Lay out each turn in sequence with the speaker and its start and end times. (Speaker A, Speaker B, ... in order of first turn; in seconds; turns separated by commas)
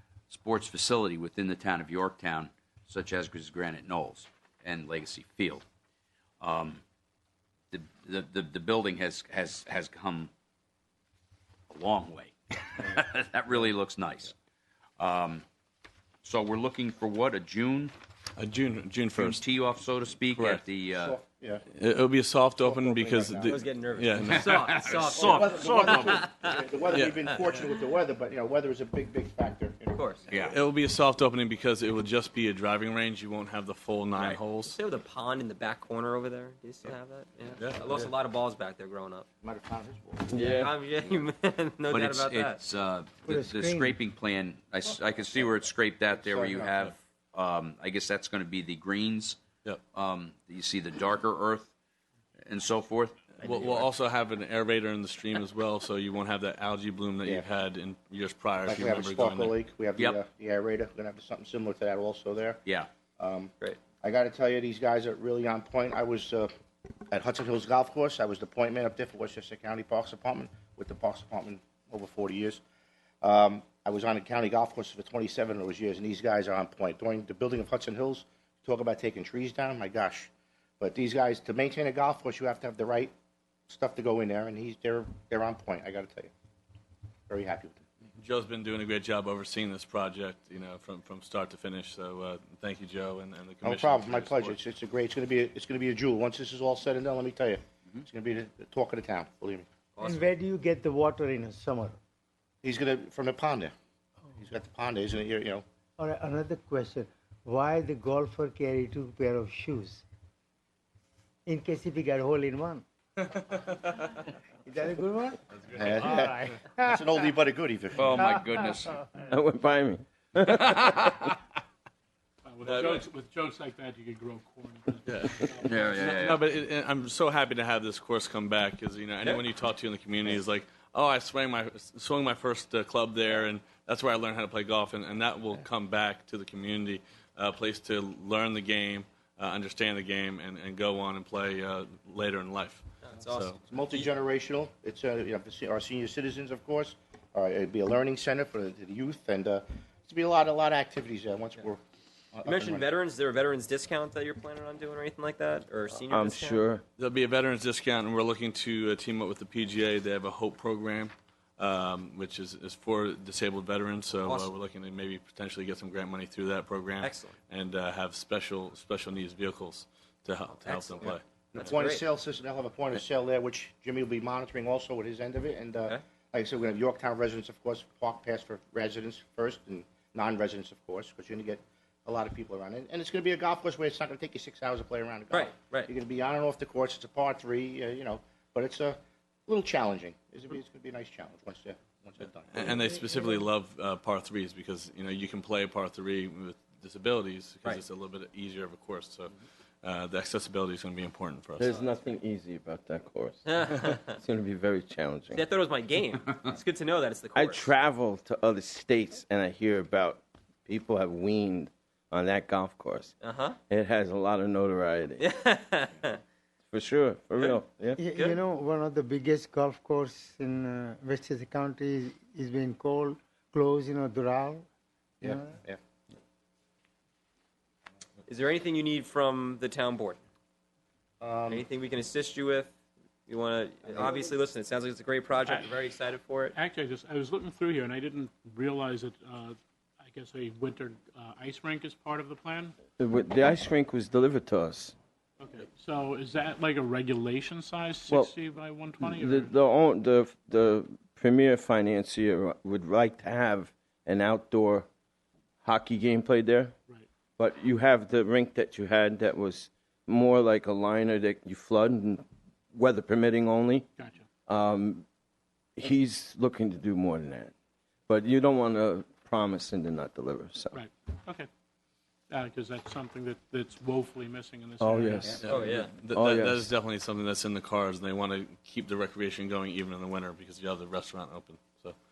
Speaker A: 0.3-5.6, Speaker A: 6.4-6.8, Speaker A: 7.7-10.3, Speaker A: 11.7-14.3, Speaker A: 15.0-15.4, Speaker A: 16.2-17.9, Speaker B: 18.4-19.4, Speaker A: 19.1-21.2, Speaker B: 20.3-20.6, Speaker C: 21.0-21.6, Speaker B: 21.7-24.7, Speaker C: 22.6-23.6, Speaker D: 23.4-26.6, Speaker A: 24.3-26.3, Speaker C: 25.2-30.2, Speaker B: 26.9-27.3, Speaker D: 29.9-30.2, Speaker B: 30.3-34.8, Speaker A: 30.3-30.6, Speaker D: 34.2-39.3, Speaker B: 37.6-38.0, Speaker C: 39.4-40.5, Speaker E: 40.3-40.7, Speaker D: 40.4-42.6, Speaker A: 41.9-49.4, Speaker F: 43.3-44.0, Speaker C: 46.1-46.9, Speaker A: 49.9-51.7, Speaker A: 52.5-53.6, Speaker B: 53.4-59.6, Speaker C: 58.7-62.6, Speaker C: 63.2-66.5, Speaker C: 67.1-72.6, Speaker C: 73.2-83.1, Speaker C: 83.7-86.3, Speaker C: 87.3-87.8, Speaker B: 88.2-94.6, Speaker C: 93.6-99.7, Speaker D: 100.0-100.3, Speaker F: 100.0-102.0, Speaker C: 102.6-103.7, Speaker C: 104.4-105.6, Speaker F: 106.0-110.0, Speaker F: 111.5-112.8, Speaker F: 114.7-117.3, Speaker B: 115.6-116.1, Speaker C: 115.8-118.3, Speaker A: 118.0-119.0, Speaker E: 119.2-121.3, Speaker G: 122.5-126.2, Speaker B: 122.7-123.0, Speaker B: 125.1-143.6, Speaker A: 125.6-126.4, Speaker D: 143.0-144.1, Speaker C: 143.2-151.8, Speaker C: 152.3-152.9, Speaker D: 152.4-156.7, Speaker E: 156.1-156.8, Speaker B: 157.0-171.2, Speaker D: 164.2-164.5, Speaker D: 167.0-167.4, Speaker D: 170.7-171.0, Speaker C: 171.0-192.8, Speaker D: 171.5-172.1, Speaker D: 185.3-185.9, Speaker B: 192.5-201.7, Speaker F: 192.8-193.4, Speaker E: 201.6-205.4, Speaker D: 201.7-201.9, Speaker D: 203.4-204.0, Speaker D: 205.3-207.7, Speaker E: 207.3-213.1, Speaker D: 213.2-213.6, Speaker E: 213.7-215.3, Speaker D: 215.2-216.2, Speaker E: 216.7-218.0, Speaker F: 218.0-224.7, Speaker D: 218.1-218.4, Speaker C: 225.2-225.8, Speaker F: 225.2-225.5, Speaker D: 228.3-230.2, Speaker C: 231.2-231.7, Speaker D: 231.5-232.7, Speaker D: 233.3-236.6, Speaker G: 235.4-235.8, Speaker G: 236.5-242.8, Speaker E: 243.0-244.9, Speaker G: 245.4-249.5, Speaker E: 248.1-248.3, Speaker E: 249.0-254.9, Speaker E: 255.6-256.7, Speaker E: 257.4-263.9, Speaker G: 264.0-264.3, Speaker E: 264.5-265.1, Speaker E: 265.8-267.5, Speaker E: 268.1-270.8, Speaker G: 270.7-271.5, Speaker G: 272.3-275.8, Speaker E: 274.8-275.4, Speaker B: 275.4-282.0, Speaker D: 275.5-275.9, Speaker E: 276.1-276.7